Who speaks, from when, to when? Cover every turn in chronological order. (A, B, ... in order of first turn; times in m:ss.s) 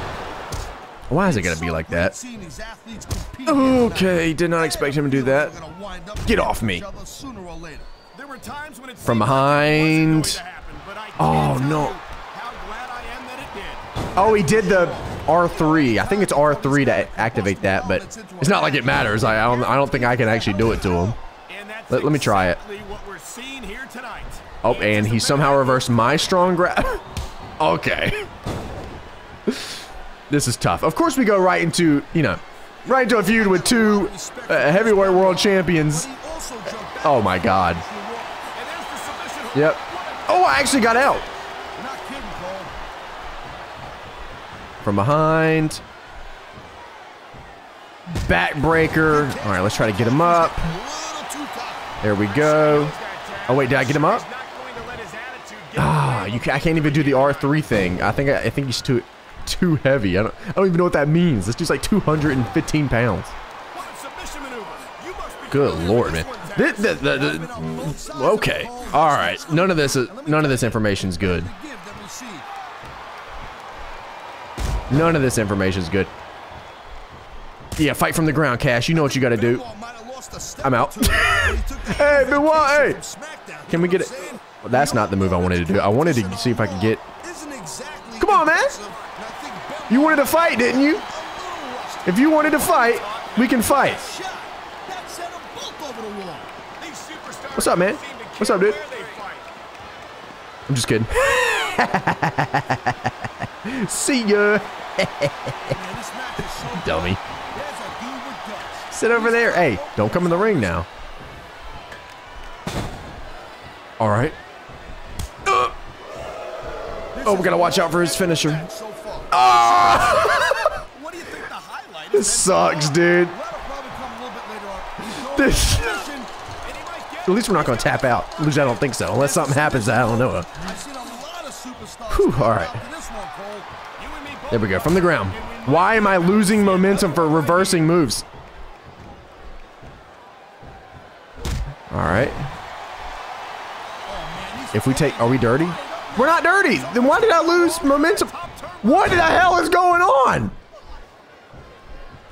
0:01.1-0:02.2 A
0:01.1-0:07.9 B
0:03.5-0:05.6 A
0:06.2-0:06.8 A
0:08.1-0:13.8 C
0:09.0-0:10.4 A
0:11.2-0:12.0 A
0:14.1-0:21.2 B
0:14.2-0:21.2 A
0:21.5-0:26.0 C
0:21.9-0:22.6 A
0:24.6-0:27.0 A
0:27.6-0:28.3 A
0:29.5-0:29.8 A
0:30.3-0:36.1 A
0:32.8-0:38.4 B
0:37.0-0:37.8 A
0:38.5-0:41.4 C
0:39.5-0:41.3 A
0:41.8-0:42.7 B
0:44.8-0:45.8 A
0:48.1-0:50.7 A
0:49.0-0:52.0 B
0:52.0-0:53.0 A
0:52.3-0:57.6 C
0:53.5-0:54.2 A
0:55.8-1:03.3 A
1:03.7-1:07.0 C
1:05.5-1:11.5 A
1:06.8-1:12.5 B
1:14.9-1:16.1 A
1:17.8-1:19.6 A
1:18.9-1:32.6 B
1:20.6-1:23.0 A
1:23.7-1:27.0 A
1:28.2-1:28.8 A
1:28.8-1:29.1 C
1:29.9-1:31.1 A
1:32.1-1:34.1 A
1:32.4-1:33.8 C
1:33.6-1:36.5 B
1:36.8-1:39.5 C
1:37.6-1:38.8 A
1:40.7-1:43.1 A
1:43.6-1:45.8 A
1:45.7-1:50.9 B
1:46.7-1:47.2 A
1:48.9-1:50.9 A
1:54.0-1:54.4 A
1:55.4-1:55.8 A
1:57.1-2:00.2 B
1:57.2-1:58.7 A
1:59.3-2:00.8 A
2:00.0-2:03.0 C
2:02.1-2:03.4 A
2:03.3-2:06.3 B
2:05.2-2:05.9 A
2:05.7-2:06.0 C
2:06.6-2:10.2 C
2:07.3-2:10.5 A
2:09.4-2:13.7 B
2:12.1-2:12.8 A
2:14.0-2:17.9 C
2:14.5-2:18.2 A
2:21.9-2:22.5 A
2:24.1-2:26.2 B
2:24.7-2:28.3 A
2:26.2-2:29.4 C
2:28.8-2:30.6 A